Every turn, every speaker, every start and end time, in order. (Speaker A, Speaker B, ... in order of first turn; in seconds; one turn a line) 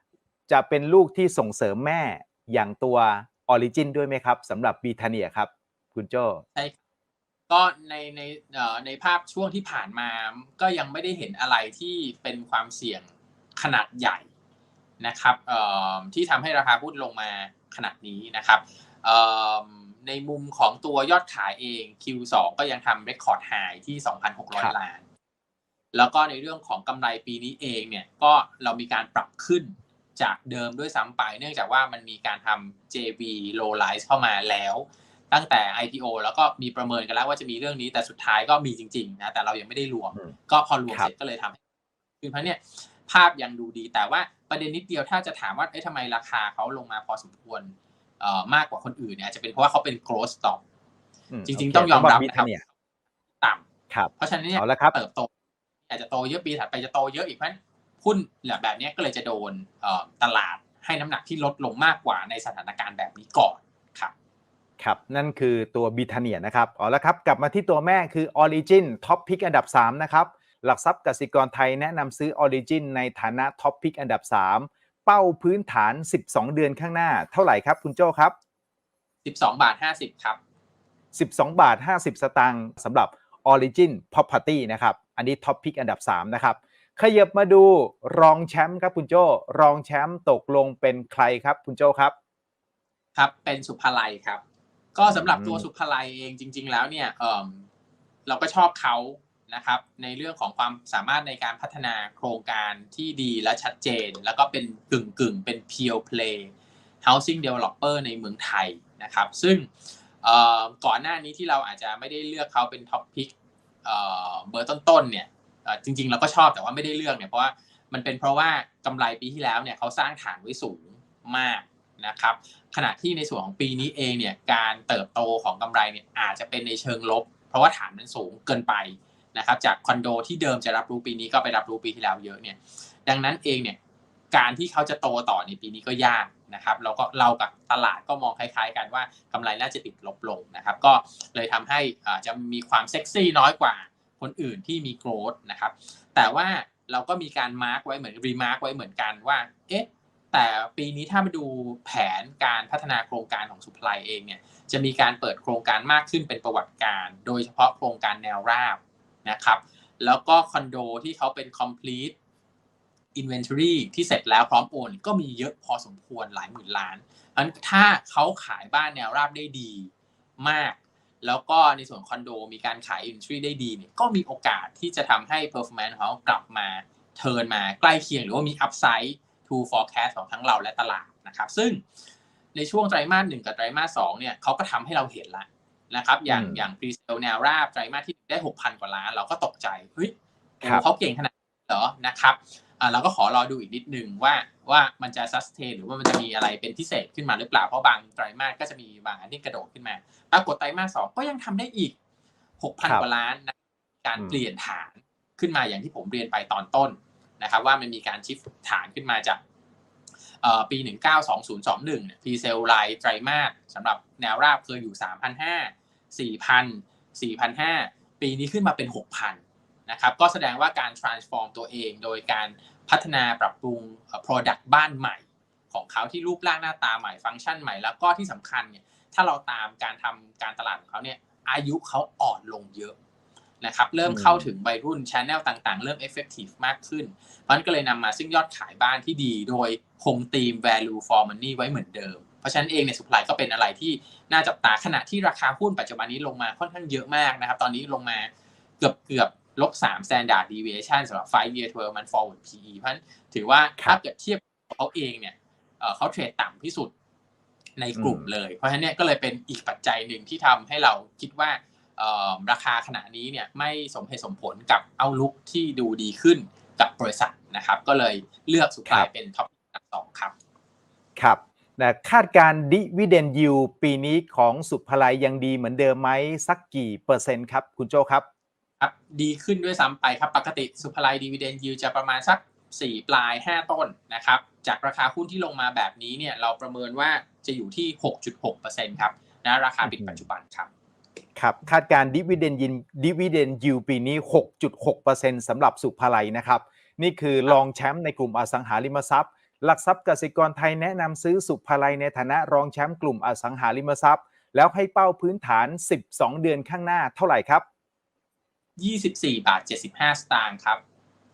Speaker A: 0.5-6.4
Speaker B: 7.5-14.3
Speaker B: 15.0-25.0
Speaker B: 25.9-41.6
Speaker B: 42.2-50.6
Speaker A: 51.3-52.6
Speaker B: 51.5-52.7
Speaker A: 53.9-55.0
Speaker B: 54.2-55.3
Speaker B: 55.9-64.1
Speaker A: 64.8-78.3
Speaker B: 79.2-80.4
Speaker A: 81.1-92.1
Speaker B: 93.2-94.4
Speaker B: 95.0-97.7
Speaker A: 95.1-95.7
Speaker B: 98.3-106.5
Speaker B: 107.0-109.7
Speaker B: 110.2-113.3
Speaker B: 113.8-133.8
Speaker B: 134.3-162.2
Speaker B: 163.2-181.8
Speaker B: 182.6-201.9
Speaker A: 186.3-186.6
Speaker B: 202.6-209.4
Speaker B: 210.4-232.9
Speaker B: 233.6-248.3
Speaker A: 234.1-234.5
Speaker B: 248.8-256.9
Speaker B: 257.8-270.3
Speaker A: 258.0-258.3
Speaker A: 271.2-278.3
Speaker B: 278.8-290.7
Speaker A: 289.8-290.2
Speaker A: 291.4-307.6
Speaker B: 308.8-310.8